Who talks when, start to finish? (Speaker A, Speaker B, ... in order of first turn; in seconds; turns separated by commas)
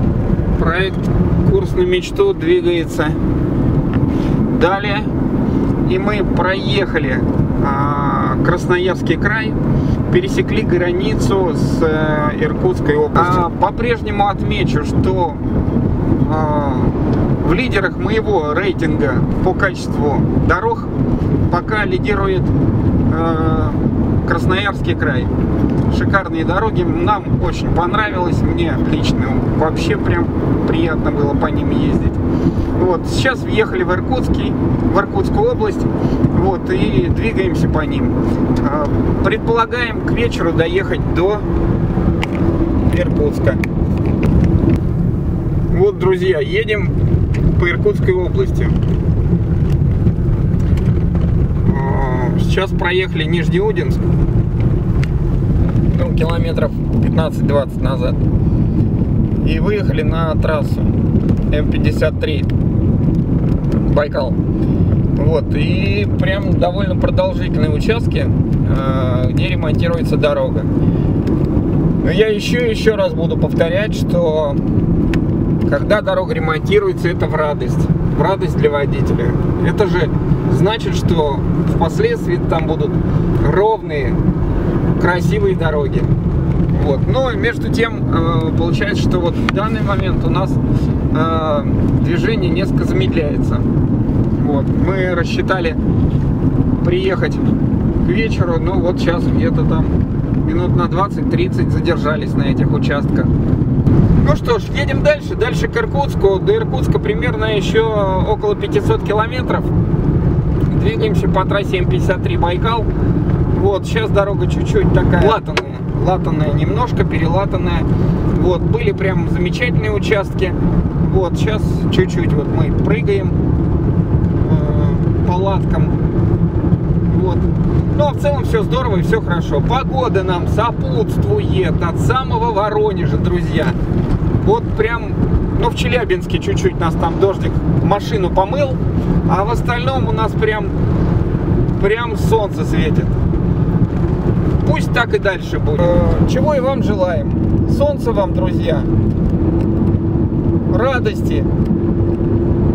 Speaker A: 0.5-3.2, Speaker A: 4.4-5.1, Speaker A: 5.8-15.4, Speaker A: 16.2-20.9, Speaker A: 21.5-22.5, Speaker A: 23.0-25.3, Speaker A: 25.9-41.5, Speaker A: 42.9-43.6, Speaker A: 45.7-48.8, Speaker A: 51.6-54.1, Speaker A: 55.8-58.2, Speaker A: 59.4-61.0, Speaker A: 61.5-62.5, Speaker A: 63.7-64.4, Speaker A: 65.1-70.7, Speaker A: 72.0-74.7, Speaker A: 75.6-84.2, Speaker A: 85.0-86.2, Speaker A: 86.7-93.7, Speaker A: 94.3-95.8, Speaker A: 96.8-103.3, Speaker A: 104.2-109.7, Speaker A: 110.7-112.9, Speaker A: 113.5-123.4, Speaker A: 124.4-126.0, Speaker A: 127.0-133.8, Speaker A: 134.4-140.8, Speaker A: 141.8-143.1, Speaker A: 144.6-148.9, Speaker A: 150.7-151.5